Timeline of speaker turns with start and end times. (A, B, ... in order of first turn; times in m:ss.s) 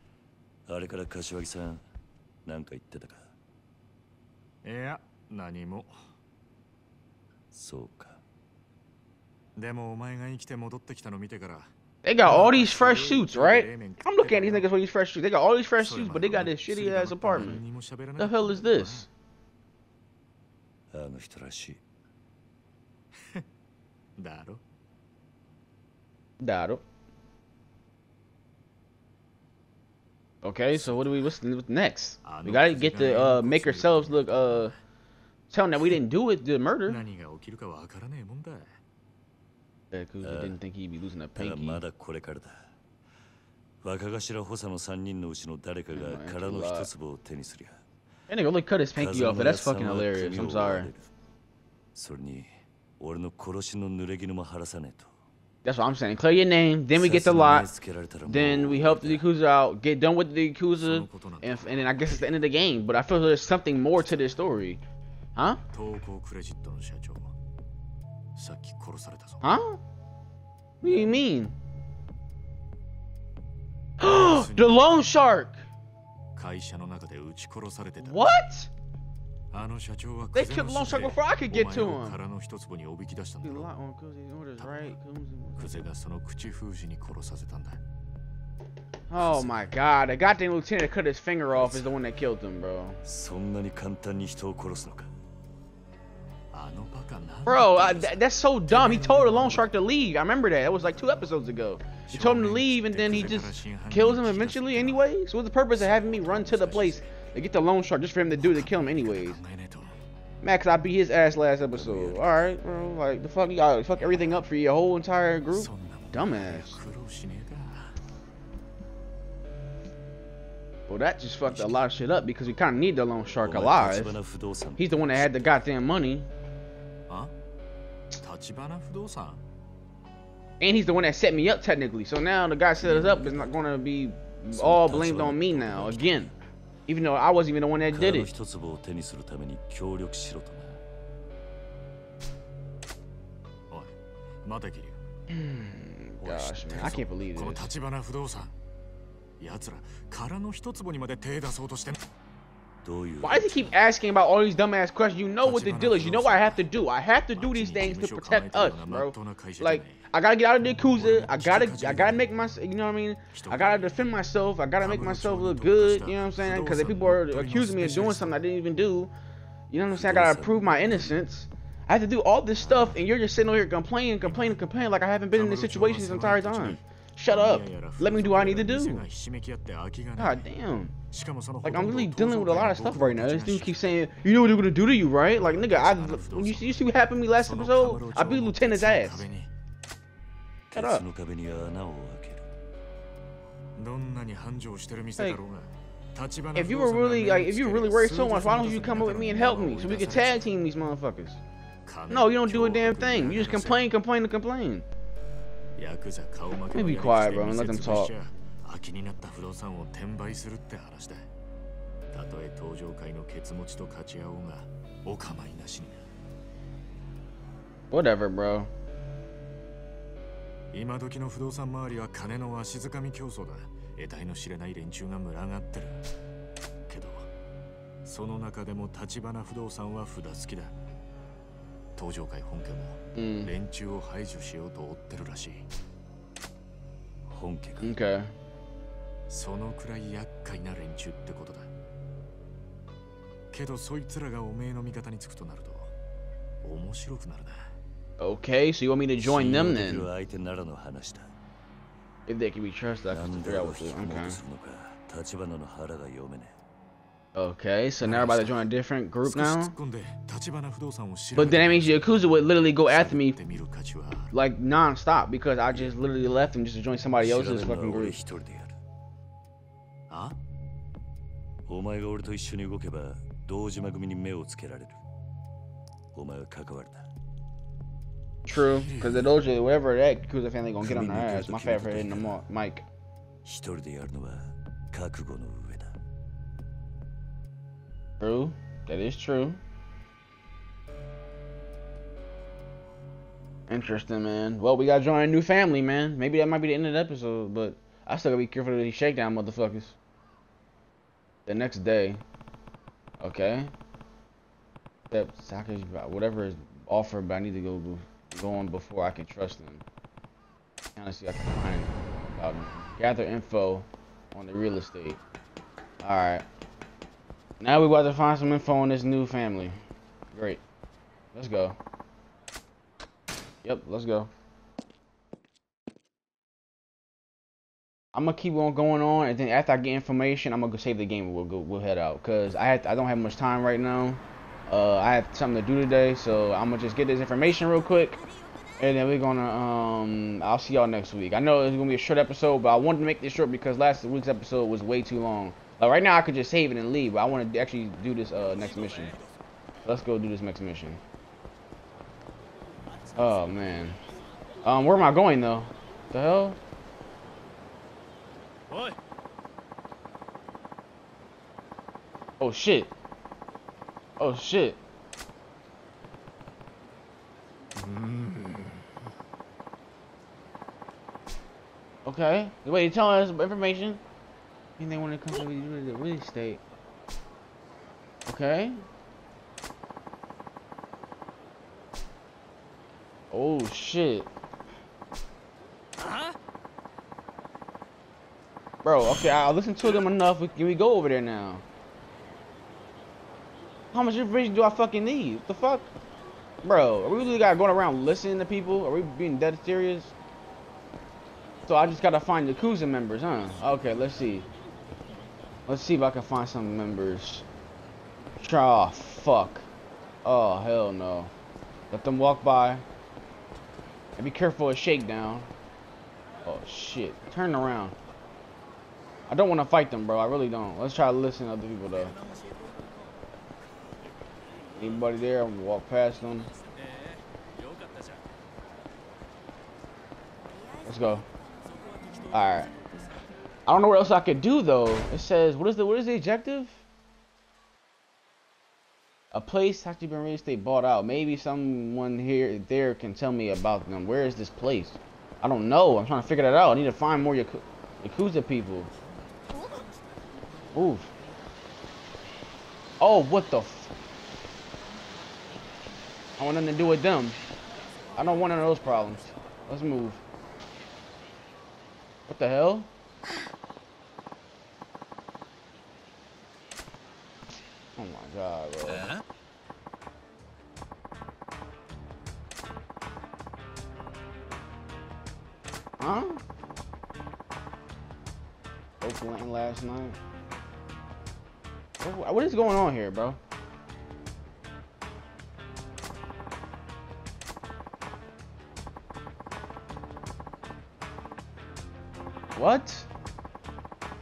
0:00.7-0:01.8 A
0:02.4-0:03.3 A
0:04.6-0:05.9 B
0:07.5-0:08.2 A
0:09.6-0:11.7 B
0:12.0-0:17.6 C
0:12.2-0:14.7 B
0:15.8-0:19.1 B
0:18.2-0:19.1 C
0:20.9-0:21.8 A
0:24.2-0:24.6 B
0:26.4-0:26.8 C
0:30.4-0:34.7 C
0:30.7-0:31.3 B
0:32.2-0:34.8 B
0:35.5-0:37.0 C
0:36.9-0:38.8 B
0:39.9-0:41.8 C
0:40.2-0:40.6 A
0:41.4-0:42.7 A
0:43.8-0:47.8 A
0:45.9-0:46.9 C
0:48.3-0:50.9 C
0:49.0-0:51.1 A
0:52.0-0:55.1 A
0:55.6-0:57.7 C
0:56.9-0:59.3 A
0:58.3-1:04.8 C
1:00.8-1:02.0 B
1:05.4-1:05.6 C
1:05.7-1:07.3 B
1:08.4-1:09.4 B
1:09.4-1:09.8 C
1:10.8-1:11.6 C
1:14.0-1:15.6 C
1:14.0-1:15.0 B
1:16.4-1:18.3 B
1:18.0-1:18.7 C
1:19.5-1:23.7 B
1:20.4-1:22.2 C
1:23.4-1:25.8 C
1:24.6-1:25.0 B
1:25.6-1:27.8 B
1:29.1-1:33.0 C
1:29.2-1:29.7 B
1:33.0-1:35.1 A
1:36.5-1:39.7 B
1:37.5-1:49.4 C
1:42.1-1:45.0 B
1:45.8-1:47.2 B
1:48.4-1:50.0 B
1:50.4-1:56.8 C
1:51.8-1:52.4 B
1:55.5-1:58.0 B
2:00.9-2:04.2 C
2:01.5-2:01.8 B
2:03.4-2:05.6 A
2:04.8-2:06.3 C
2:08.2-2:09.4 B
2:10.6-2:16.3 C
2:12.8-2:13.6 A
2:14.5-2:16.1 A
2:14.9-2:16.1 B
2:16.9-2:18.3 C
2:17.9-2:20.8 A
2:24.4-2:25.0 B
2:25.3-2:27.7 C
2:26.2-2:28.5 B
2:29.4-2:32.0 B
2:32.8-2:33.6 A
2:33.2-2:49.1 C
2:35.4-2:36.7 B
2:37.4-2:40.1 B
2:41.0-2:42.2 B
2:43.3-2:44.0 B
2:44.8-2:48.4 B
2:49.7-2:59.0 C
2:49.9-2:51.1 A
2:54.2-2:54.6 B
2:55.3-3:00.5 B
3:00.2-3:00.9 C
3:01.1-3:03.9 B
3:01.6-3:09.3 C
3:05.4-3:09.5 B
3:10.7-3:12.5 A
3:10.7-3:11.0 C
3:13.8-3:20.5 B
3:16.6-3:21.4 C
3:21.8-3:23.8 B
3:22.1-3:24.8 C
3:25.8-3:31.3 B
3:26.7-3:28.1 C
3:32.1-3:36.0 B
3:37.9-3:38.7 C
3:40.7-3:46.0 B
3:46.9-3:47.3 B
3:48.0-3:50.7 B
3:52.0-3:55.7 B
3:53.2-3:53.5 C
3:57.3-3:57.9 A
3:57.8-3:58.3 C
3:59.3-4:01.7 B
4:03.5-4:05.9 B
4:06.6-4:07.7 B
4:08.2-4:10.1 C
4:09.2-4:11.3 A
4:12.3-4:14.4 C
4:13.1-4:16.6 A
4:17.4-4:19.8 C
4:18.0-4:18.7 B
4:19.2-4:22.2 B
4:21.4-4:23.4 C
4:22.9-4:24.3 B
4:24.3-4:28.2 C
4:27.2-4:28.8 A
4:30.1-4:30.4 B
4:31.7-4:35.0 A
4:36.1-4:37.1 A
4:38.5-4:42.9 C
4:38.5-4:39.4 B
4:40.8-4:42.4 A
4:43.4-4:46.0 A
4:48.2-4:49.6 C
4:53.7-5:00.0 C
5:01.5-5:02.2 C
5:03.2-5:03.7 C
5:05.1-5:09.8 C
5:11.0-5:15.2 C
5:16.0-5:16.4 C
5:17.6-5:19.8 C
5:20.3-5:20.6 C
5:21.3-5:21.8 C
5:23.6-5:24.3 C
5:28.1-5:38.2 C
5:38.8-5:49.2 C
5:49.8-5:51.0 C
5:53.2-5:54.0 C
5:54.6-5:56.6 C
6:02.4-6:02.9 C
6:04.2-6:04.8 C
6:12.0-6:14.0 C
6:14.8-6:16.6 C
6:18.3-6:18.8 C
6:23.3-6:24.3 C
6:28.8-6:31.6 C
6:33.9-6:35.9 C
6:36.6-6:40.1 C
6:41.7-6:44.5 C
6:45.7-6:47.5 C
6:48.4-6:49.7 C
6:50.2-6:51.3 C
6:51.9-6:52.8 C
6:54.2-6:55.5 C
6:56.4-6:58.0 C
6:59.3-7:02.2 C
7:04.8-7:06.5 C
7:10.8-7:11.2 C
7:12.3-7:12.7 C
7:13.7-7:16.8 C
7:19.3-7:28.9 C
7:30.7-7:31.1 C
7:33.0-7:33.9 C
7:36.4-7:37.4 C
7:38.2-7:40.2 C
7:42.3-7:42.9 C
7:48.0-7:49.2 C
7:56.0-7:56.4 C
7:59.0-8:00.2 C
8:02.0-8:03.4 C
8:12.6-8:13.1 C